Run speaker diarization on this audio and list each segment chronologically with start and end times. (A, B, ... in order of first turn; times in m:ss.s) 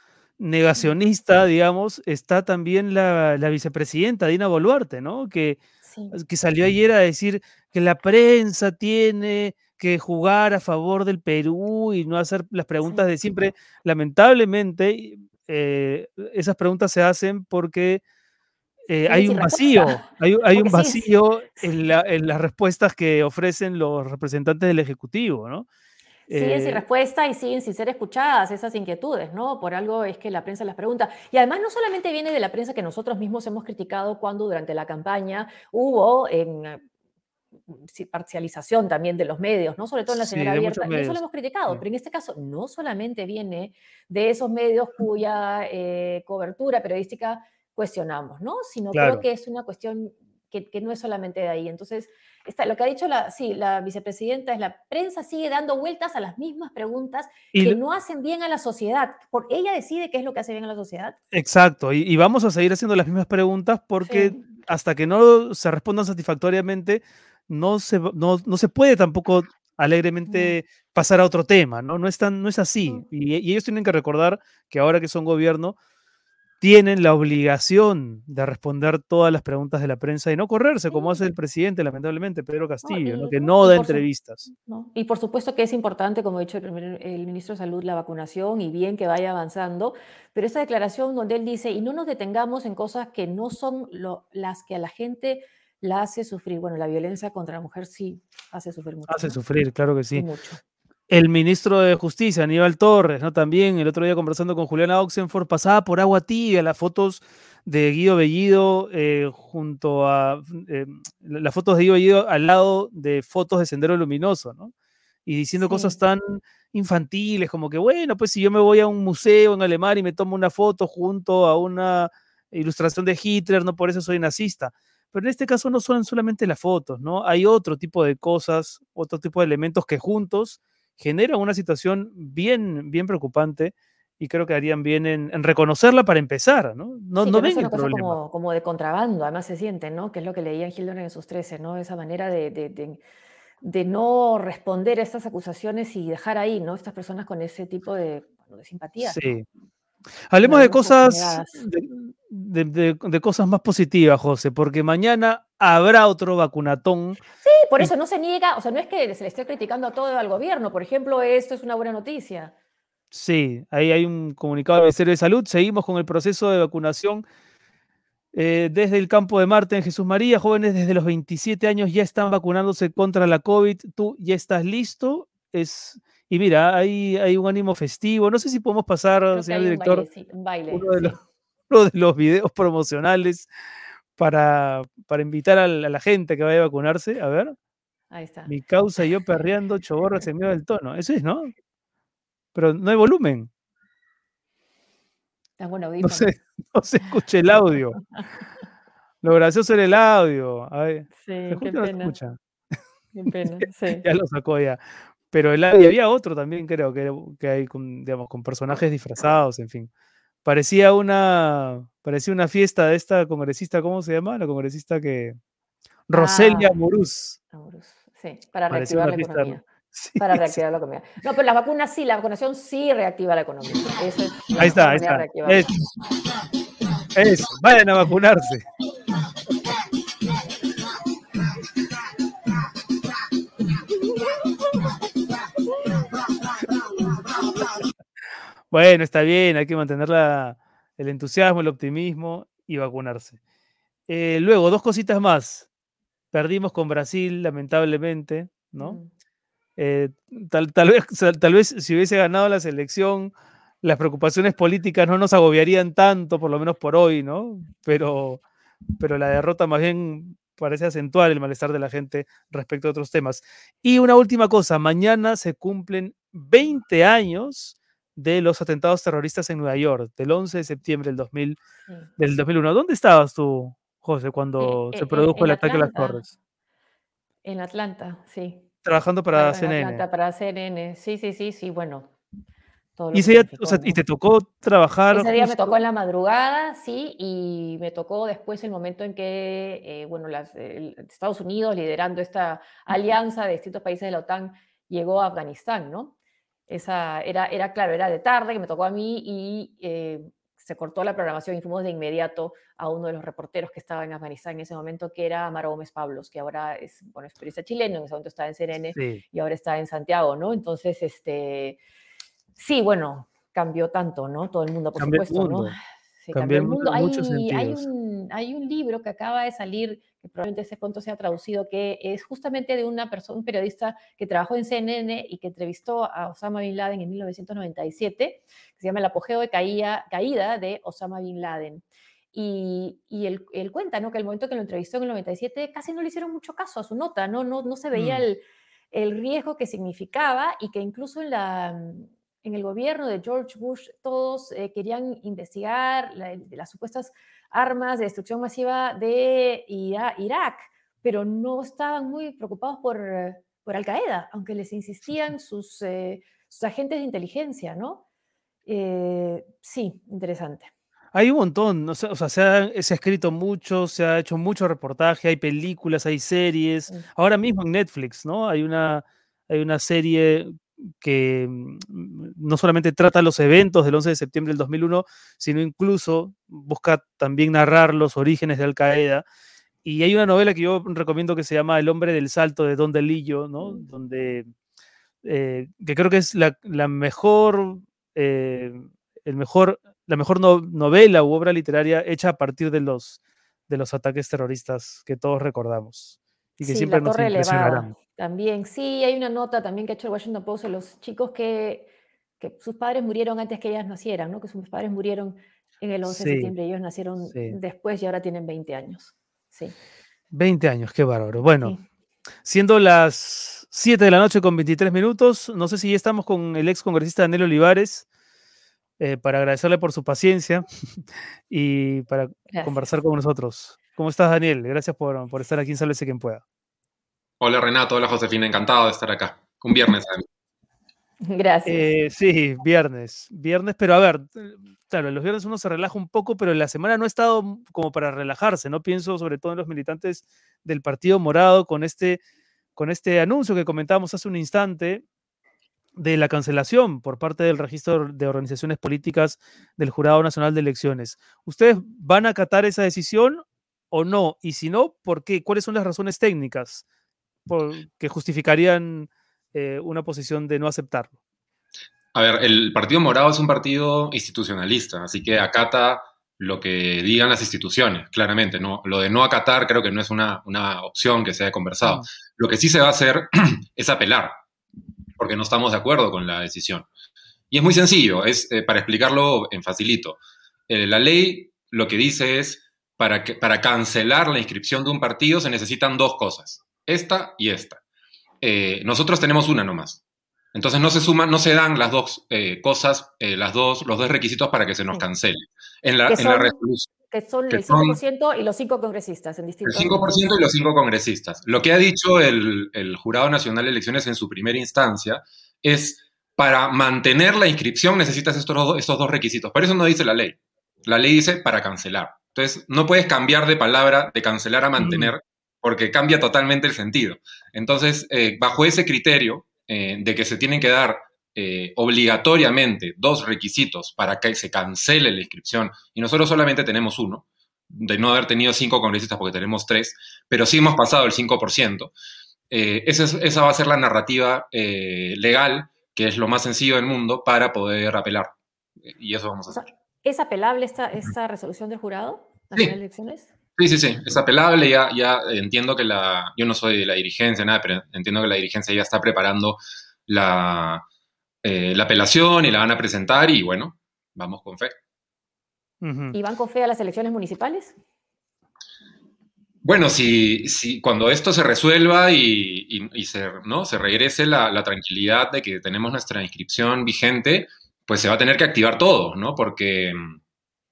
0:00.4-0:05.6 A
0:05.8-0:06.2 B
0:06.1-0:18.0 A
0:18.9-0:25.7 A
0:19.1-0:21.7 B
0:26.3-0:26.8 A
0:26.3-0:36.8 B
0:37.7-1:01.2 B
0:40.1-0:41.8 A
0:48.9-0:49.2 A
0:57.5-0:57.8 A
1:01.3-1:15.8 A
1:04.0-1:04.4 B
1:10.2-1:10.6 B
1:16.6-1:24.5 A
1:20.9-1:21.2 B
1:22.8-1:39.4 B
1:39.1-1:40.2 A
1:40.1-1:40.6 B
1:41.1-1:54.7 A
1:55.2-2:18.2 A
1:55.6-1:56.0 B
2:17.2-2:23.0 B
2:23.6-2:29.2 B
2:29.0-2:29.4 A
2:30.3-2:37.2 A
2:30.4-2:31.6 B
2:37.4-2:42.5 B
2:43.1-2:47.2 A
2:48.3-3:00.0 A
2:59.3-3:01.2 B
3:00.7-3:01.2 A
3:01.7-3:03.5 A
3:04.2-3:07.5 A
3:08.1-3:08.5 B
3:08.5-3:11.5 A
3:12.5-3:13.5 A
3:15.6-3:16.3 B
3:16.0-3:18.0 A
3:18.0-3:18.3 B
3:19.2-3:22.4 A
3:21.2-3:22.1 B
3:23.1-3:24.0 B
3:24.0-3:29.9 A
3:30.4-3:35.4 A
3:36.1-3:37.4 A
3:36.1-3:36.7 B
3:37.5-3:39.6 B
3:38.7-3:40.6 A
3:40.2-3:45.7 B
3:44.6-3:45.7 A
3:47.1-3:48.6 A
3:58.7-4:03.4 A
4:04.1-4:05.6 A
4:06.3-4:09.0 A
4:08.8-4:09.1 B
4:09.8-4:18.4 A
4:19.0-4:31.6 A
4:32.2-4:36.3 A
4:34.6-4:36.2 B
4:37.4-4:38.6 B
4:38.8-4:40.0 A
4:39.3-4:42.1 B
4:43.0-4:44.0 B
4:43.1-4:45.8 A
4:45.1-4:56.1 B
4:56.7-5:11.8 B
5:09.0-5:09.2 A
5:12.6-5:58.0 B
5:15.0-5:15.7 A
5:16.3-5:17.8 A
5:37.9-5:38.2 A
5:58.6-6:00.7 B
6:01.1-6:19.2 A
6:19.8-6:24.5 A
6:23.6-6:23.8 B
6:25.2-6:33.2 A
6:33.7-6:37.9 A
6:36.6-6:49.7 B
6:46.0-6:46.5 A
6:47.3-6:47.6 A
6:50.3-6:51.7 A
6:52.4-6:58.0 A
6:59.0-7:00.7 A
7:01.5-7:06.4 A
7:02.5-7:02.8 B
7:07.4-7:10.2 C
7:11.2-7:11.9 B
7:11.6-7:22.2 A
7:22.8-7:25.0 A
7:26.0-7:36.8 A
7:37.5-7:41.1 A
7:42.1-7:54.4 C
7:55.2-7:56.9 C
7:57.5-8:07.8 C
8:08.4-8:10.0 C
8:10.5-8:16.9 C
8:16.1-8:16.6 B
8:17.1-8:20.3 B
8:17.5-8:18.0 C
8:19.6-8:51.9 C
8:34.8-8:35.1 A
8:52.5-8:58.3 C
8:58.9-8:59.6 C
8:59.5-9:03.3 B
9:03.6-9:10.8 C
9:11.4-9:14.8 C
9:15.8-9:16.1 A
9:16.1-9:17.8 B
9:19.6-9:30.2 C